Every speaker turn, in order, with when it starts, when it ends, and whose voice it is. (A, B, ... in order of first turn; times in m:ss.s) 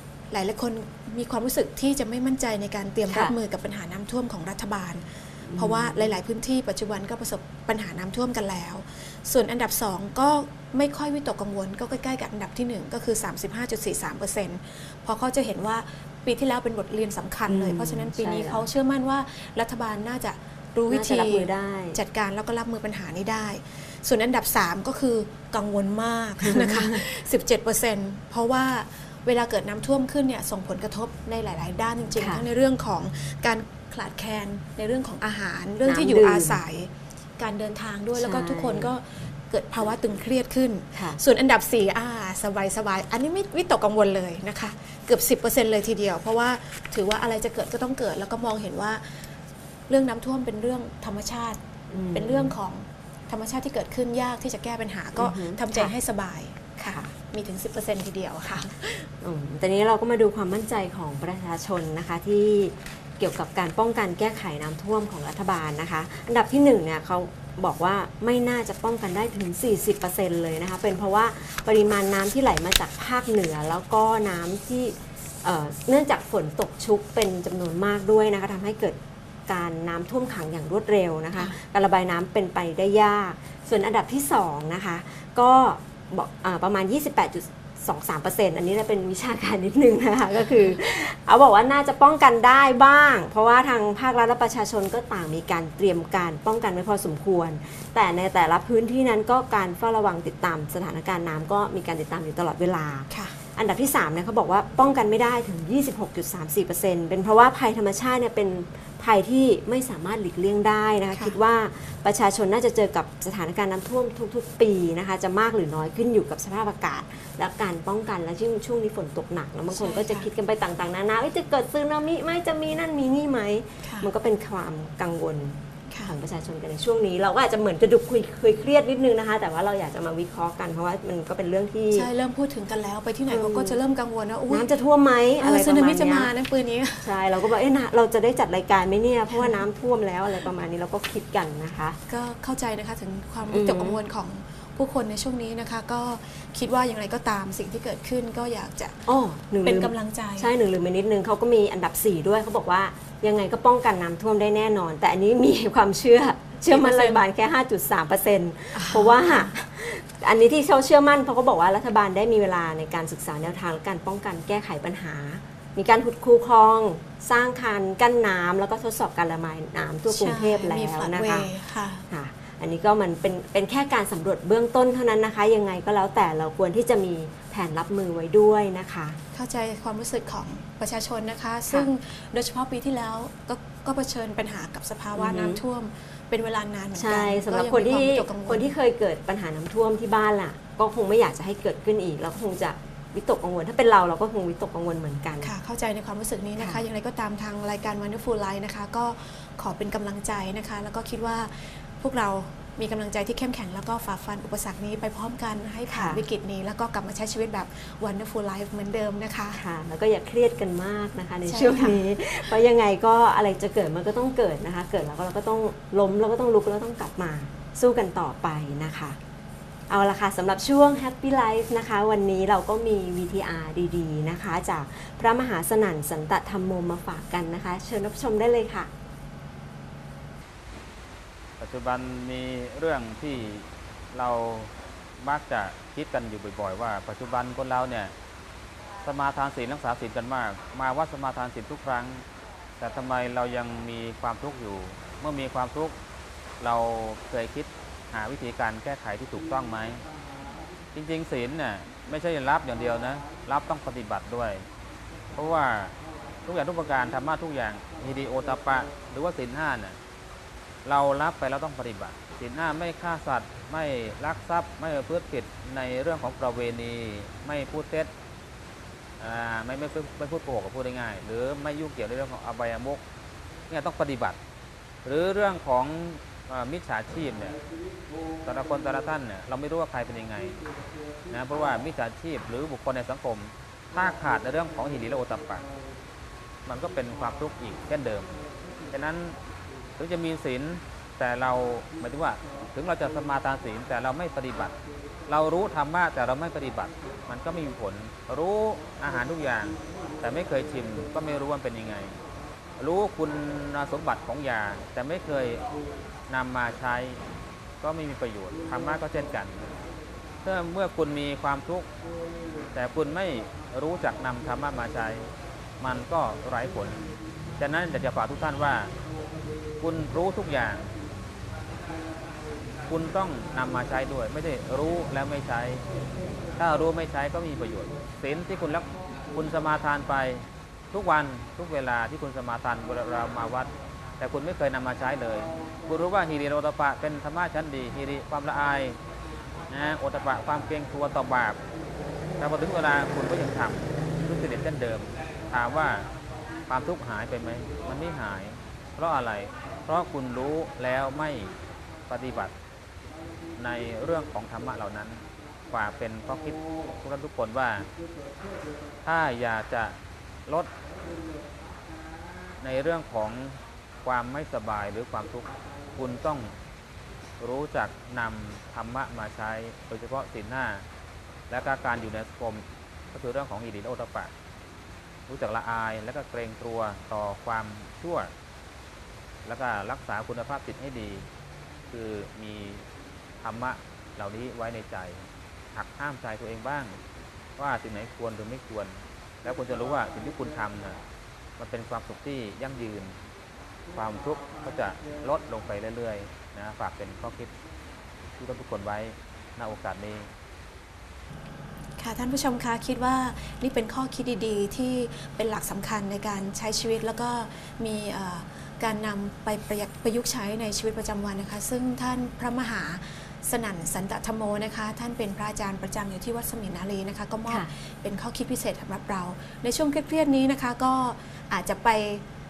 0:00.3-0:49.4 A
0:03.1-0:03.3 B
0:05.4-0:06.1 B
0:17.5-0:18.7 B
0:20.9-0:22.0 B
0:26.4-0:27.0 B
0:32.2-0:32.4 B
0:35.8-0:36.6 B
0:38.2-0:38.9 B
0:49.9-0:51.6 A
0:51.9-0:52.5 B
0:52.1-0:59.1 A
0:55.2-0:55.9 B
0:56.8-0:57.1 B
0:59.2-2:12.1 B
1:43.1-1:43.4 A
1:51.1-1:51.4 A
1:59.7-2:00.3 A
2:03.8-2:04.1 A
2:11.9-2:14.7 A
2:13.3-2:13.8 B
2:14.5-2:16.3 B
2:15.4-2:17.2 A
2:17.0-2:22.0 B
2:19.3-2:19.6 A
2:22.1-2:29.0 A
2:23.5-2:24.0 B
2:29.1-2:51.5 B
2:29.6-2:30.5 A
2:36.7-2:37.2 A
2:38.7-2:39.5 A
2:50.1-2:52.0 A
2:52.1-2:59.2 B
2:59.3-3:08.7 A
3:05.2-3:05.6 B
3:06.9-3:15.5 B
3:15.4-3:29.6 A
3:16.6-3:16.8 B
3:25.9-3:26.2 B
3:29.5-3:39.2 B
3:31.4-3:32.0 A
3:39.9-3:48.9 B
3:51.6-3:58.1 C
3:59.0-4:02.2 C
4:02.8-4:06.0 C
4:06.6-4:10.0 C
4:10.9-4:14.6 C
4:15.4-4:15.9 C
4:16.4-4:20.0 C
4:20.8-4:28.1 C
4:29.2-4:33.0 C
4:33.7-4:34.4 C
4:35.0-4:37.6 C
4:38.4-4:40.6 C
4:41.3-4:45.6 C
4:46.6-4:48.4 C
4:48.9-4:49.4 C
4:50.0-4:54.7 C
4:55.3-5:02.2 C
5:02.8-5:05.6 C
5:06.3-5:07.2 C
5:07.8-5:09.7 C
5:10.4-5:11.9 C
5:12.7-5:18.9 C
5:19.8-5:20.9 C
5:22.9-5:25.8 C
5:26.6-5:39.0 C
5:39.7-5:41.6 C
5:42.4-5:46.1 C
5:46.7-5:51.5 C
5:52.1-5:52.5 C
5:53.6-5:57.9 C
5:59.0-6:00.7 C
6:02.6-6:06.5 C
6:07.4-6:10.8 C
6:11.5-6:14.3 C
6:15.3-6:18.3 C
6:19.4-6:21.3 C
6:21.9-6:22.8 C
6:23.4-6:27.0 C
6:27.6-6:31.0 C
6:31.6-6:33.1 C
6:33.9-6:37.5 C
6:38.4-6:40.3 C
6:42.0-7:02.2 A